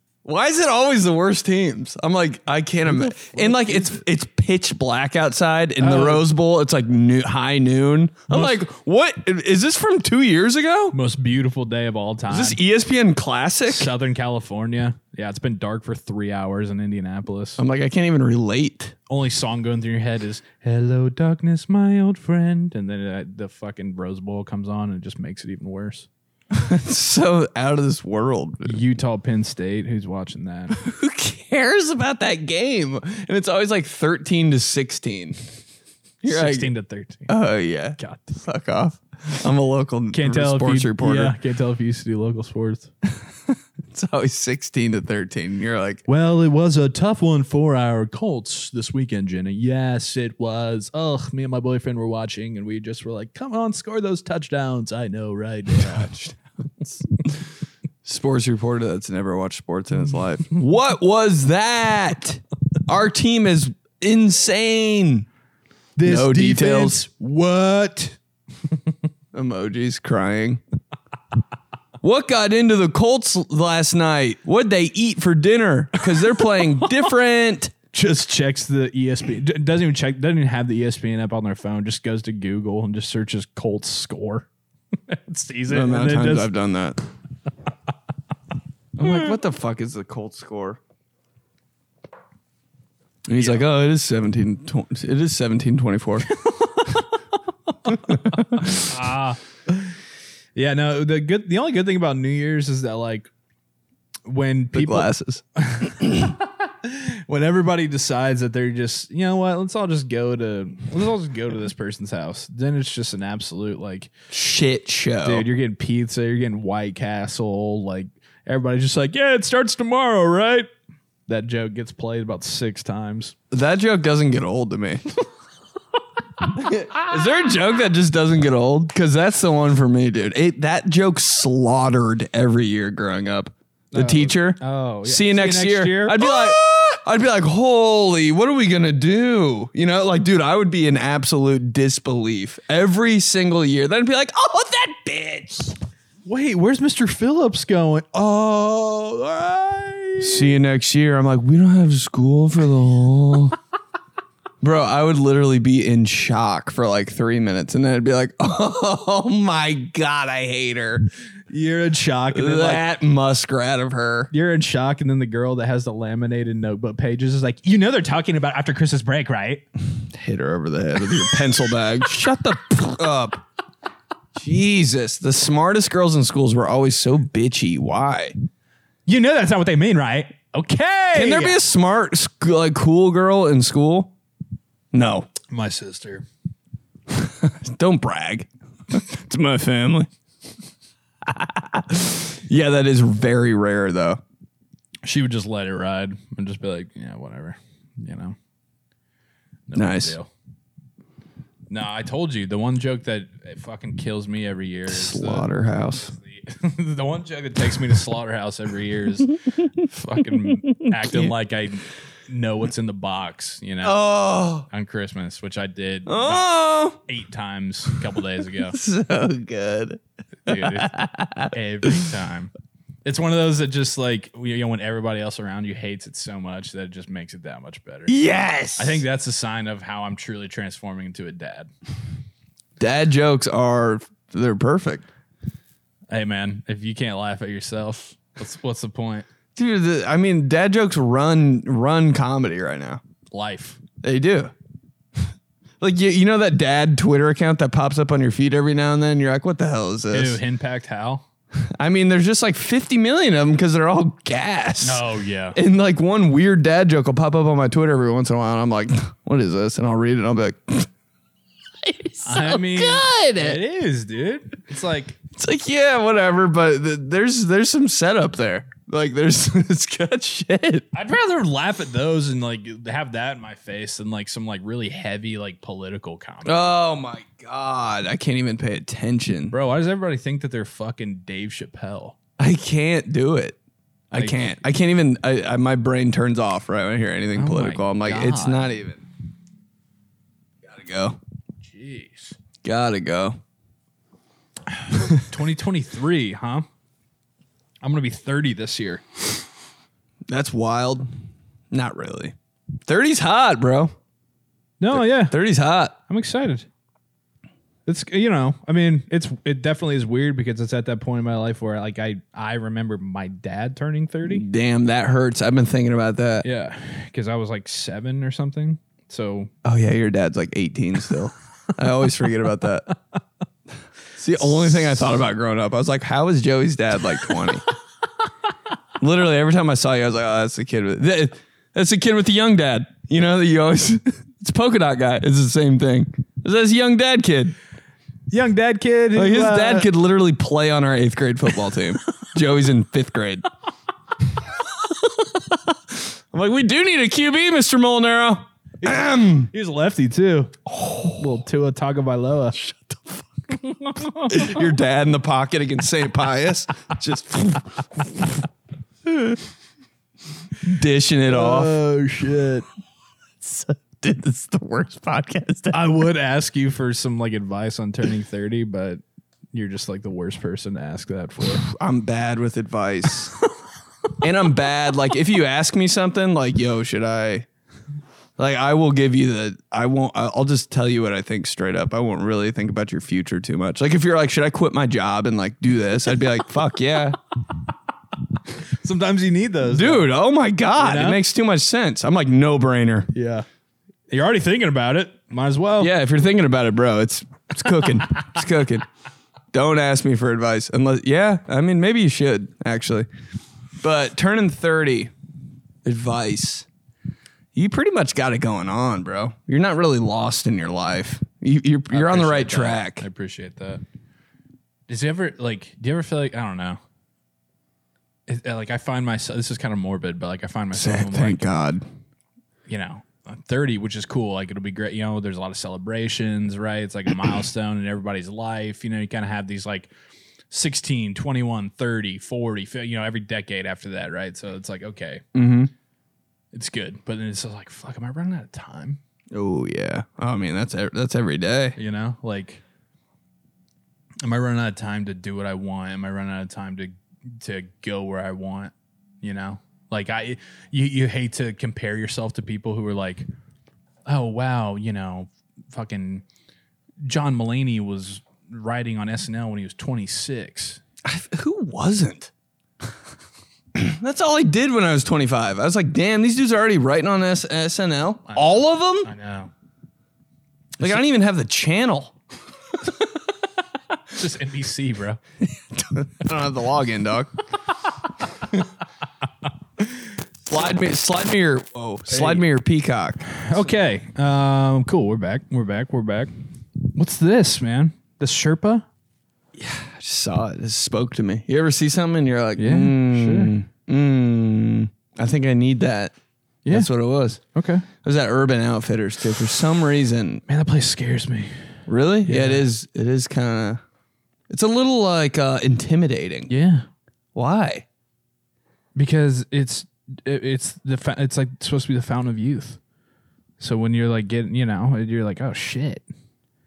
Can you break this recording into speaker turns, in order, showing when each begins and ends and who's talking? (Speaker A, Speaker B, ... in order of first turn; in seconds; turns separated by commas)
Speaker A: 0.2-11.0, Speaker B: 2.8-4.0, Speaker B: 5.8-6.2, Speaker B: 8.3-8.6, Speaker B: 10.9-12.6, Speaker A: 12.3-13.9, Speaker B: 13.7-17.6, Speaker A: 17.6-18.9, Speaker B: 19.1-26.1, Speaker A: 26.5-28.8, Speaker B: 28.6-30.8, Speaker A: 30.7-35.4, Speaker A: 36.2-36.7, Speaker B: 36.2-37.3, Speaker A: 37.3-41.3, Speaker B: 38.0-38.3, Speaker B: 40.1-42.9, Speaker A: 43.5-46.0, Speaker B: 46.1-56.1, Speaker A: 55.8-57.4, Speaker A: 58.0-65.3, Speaker B: 66.0-68.2, Speaker A: 66.0-67.0, Speaker A: 69.3-70.6, Speaker A: 72.0-77.7, Speaker B: 76.2-77.1, Speaker B: 77.9-86.5, Speaker A: 85.7-87.0, Speaker A: 89.0-90.8, Speaker B: 89.0-89.3, Speaker A: 93.2-96.4, Speaker B: 93.4-93.6, Speaker B: 96.4-97.0, Speaker B: 97.9-100.0, Speaker A: 97.9-98.9, Speaker B: 100.5-103.3, Speaker B: 104.2-114.1, Speaker A: 104.7-105.4, Speaker A: 114.3-115.5, Speaker B: 115.2-120.7, Speaker B: 121.3-123.3, Speaker A: 123.5-125.0, Speaker A: 126.5-145.8, Speaker B: 133.9-136.6, Speaker B: 146.2-150.6, Speaker A: 150.2-153.6, Speaker A: 154.6-161.1, Speaker B: 161.5-162.8, Speaker A: 162.3-164.3, Speaker B: 164.3-169.6, Speaker A: 170.1-173.4, Speaker A: 174.3-178.3, Speaker B: 179.1-181.6, Speaker A: 181.1-184.1, Speaker A: 184.9-185.3, Speaker B: 185.5-186.2, Speaker A: 187.1-190.1, Speaker A: 191.2-194.2, Speaker B: 195.0-198.3, Speaker B: 199.7-200.3, Speaker A: 199.7-200.2, Speaker B: 201.7-214.0, Speaker A: 204.9-206.1, Speaker A: 210.6-211.3, Speaker A: 213.8-214.7, Speaker B: 214.7-216.5, Speaker A: 216.1-217.0, Speaker B: 217.0-218.8, Speaker A: 218.7-222.1, Speaker B: 220.4-220.9, Speaker B: 221.5-222.5, Speaker B: 223.0-228.1, Speaker A: 228.1-229.0, Speaker B: 228.8-231.7, Speaker A: 232.8-235.1, Speaker B: 236.1-239.2, Speaker A: 239.5-243.0, Speaker B: 243.3-243.8, Speaker A: 244.0-244.5, Speaker A: 245.8-250.4, Speaker B: 250.1-251.2, Speaker A: 251.8-255.0, Speaker B: 254.8-255.6, Speaker A: 255.5-260.9, Speaker A: 261.8-263.6, Speaker B: 262.2-265.2, Speaker A: 265.3-270.9, Speaker B: 270.9-276.8, Speaker A: 276.4-279.6, Speaker B: 279.5-282.1, Speaker A: 282.4-283.6, Speaker A: 284.1-289.0, Speaker B: 284.1-284.5, Speaker B: 287.3-288.7, Speaker A: 290.6-291.2, Speaker B: 291.6-292.4, Speaker A: 292.6-293.4, Speaker B: 294.7-296.6, Speaker B: 297.8-299.4, Speaker A: 300.3-301.1, Speaker A: 301.7-302.3, Speaker A: 302.9-303.9, Speaker B: 304.8-305.4, Speaker A: 304.9-305.9, Speaker B: 306.0-306.6, Speaker B: 307.9-314.4, Speaker A: 314.2-316.5, Speaker B: 316.4-319.5, Speaker A: 319.6-322.9, Speaker A: 324.1-327.6, Speaker A: 329.0-337.5, Speaker B: 338.3-339.9, Speaker A: 339.1-343.5, Speaker A: 344.9-349.5, Speaker B: 348.8-352.6, Speaker A: 350.7-351.2, Speaker A: 352.6-358.4, Speaker B: 353.9-354.6, Speaker A: 359.1-359.4, Speaker A: 360.6-361.8, Speaker B: 361.3-362.6, Speaker A: 363.4-365.8, Speaker B: 365.7-369.0, Speaker B: 369.5-371.6, Speaker A: 371.6-373.3, Speaker A: 374.2-377.5, Speaker A: 378.4-387.2, Speaker B: 388.6-390.1, Speaker A: 389.6-393.1, Speaker B: 390.8-391.2, Speaker B: 393.1-393.4, Speaker B: 394.1-395.9, Speaker A: 395.8-398.9, Speaker A: 399.5-403.1, Speaker A: 403.8-405.1, Speaker A: 405.8-406.7, Speaker A: 407.5-413.0, Speaker B: 411.9-413.8, Speaker B: 414.9-416.8, Speaker B: 418.3-421.5, Speaker A: 420.7-421.8, Speaker B: 422.7-429.9, Speaker B: 430.5-435.2, Speaker A: 435.3-435.7, Speaker B: 436.5-439.0, Speaker A: 439.3-441.8, Speaker B: 441.8-442.6, Speaker B: 444.2-453.2, Speaker B: 454.1-456.2, Speaker B: 457.0-460.8, Speaker A: 461.0-462.3, Speaker A: 463.7-469.1, Speaker B: 468.3-469.5, Speaker A: 470.8-472.1, Speaker B: 474.1-475.2, Speaker A: 475.4-477.4, Speaker A: 480.5-483.4, Speaker B: 482.1-482.4, Speaker B: 483.4-486.3, Speaker B: 486.9-488.9, Speaker A: 489.6-496.1, Speaker B: 492.6-493.5, Speaker B: 496.6-497.9, Speaker A: 496.7-497.4, Speaker A: 498.0-500.4, Speaker B: 500.5-501.7, Speaker A: 501.9-503.8, Speaker B: 502.2-502.6, Speaker A: 504.5-506.5, Speaker B: 506.5-506.9, Speaker A: 507.3-507.8, Speaker B: 508.9-512.8, Speaker B: 513.6-516.0